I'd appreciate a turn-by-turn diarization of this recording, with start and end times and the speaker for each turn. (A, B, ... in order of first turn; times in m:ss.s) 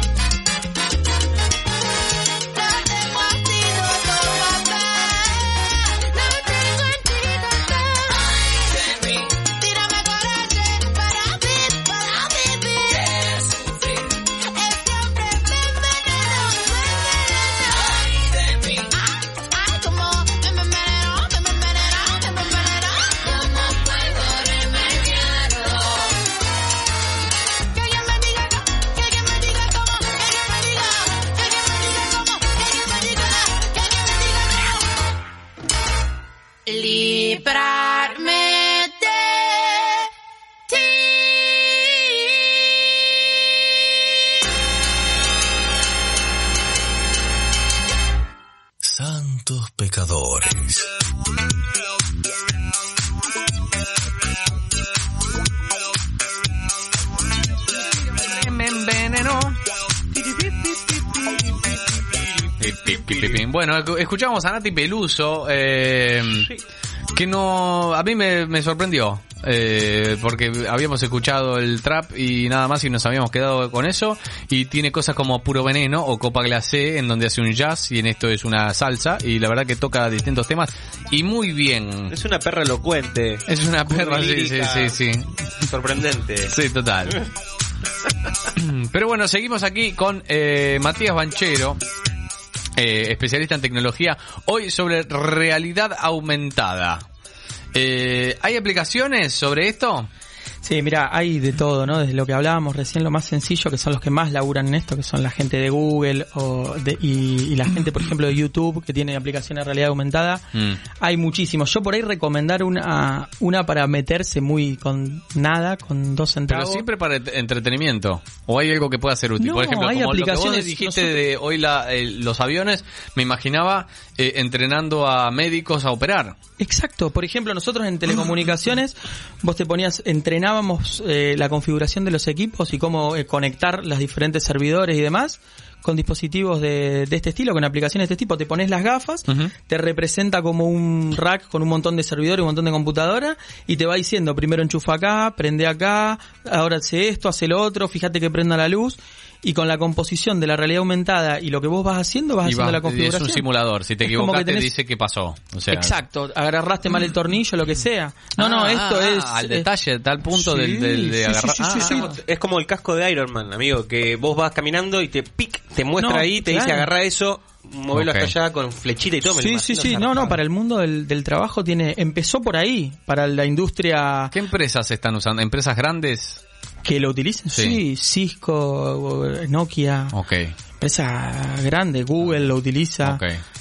0:02.5-0:26.3 A
0:27.7-0:34.9 A
0:36.7-0:40.1 A
0:40.7-0:42.6 A
0:48.8-0:50.9 B
0:58.0-0:59.6 C
1:00.5-1:01.4 C
1:02.6-1:06.5 C
1:07.1-1:22.2 C
1:22.1-1:25.0 D
1:23.5-1:25.4 C
1:25.6-1:26.5 D
1:26.5-1:27.2 C
1:28.5-1:31.8 C
1:32.8-1:37.0 C
1:37.7-1:40.1 C
1:40.6-1:56.9 E
1:50.5-1:50.8 C
1:56.5-2:06.4 C
1:59.4-2:01.2 E
2:06.6-2:33.4 E
2:32.4-2:36.0 C
2:34.0-2:34.7 E
2:35.7-2:39.7 E
2:38.4-2:42.1 C
2:40.3-2:42.1 E
2:41.8-2:50.4 D
2:46.0-2:46.9 E
2:47.9-2:48.3 C
2:49.3-2:54.4 E
2:54.3-2:56.4 C
2:56.8-3:00.2 E
2:57.5-2:57.8 C
3:00.1-3:00.5 C
3:00.8-3:03.2 E
3:03.0-3:03.4 C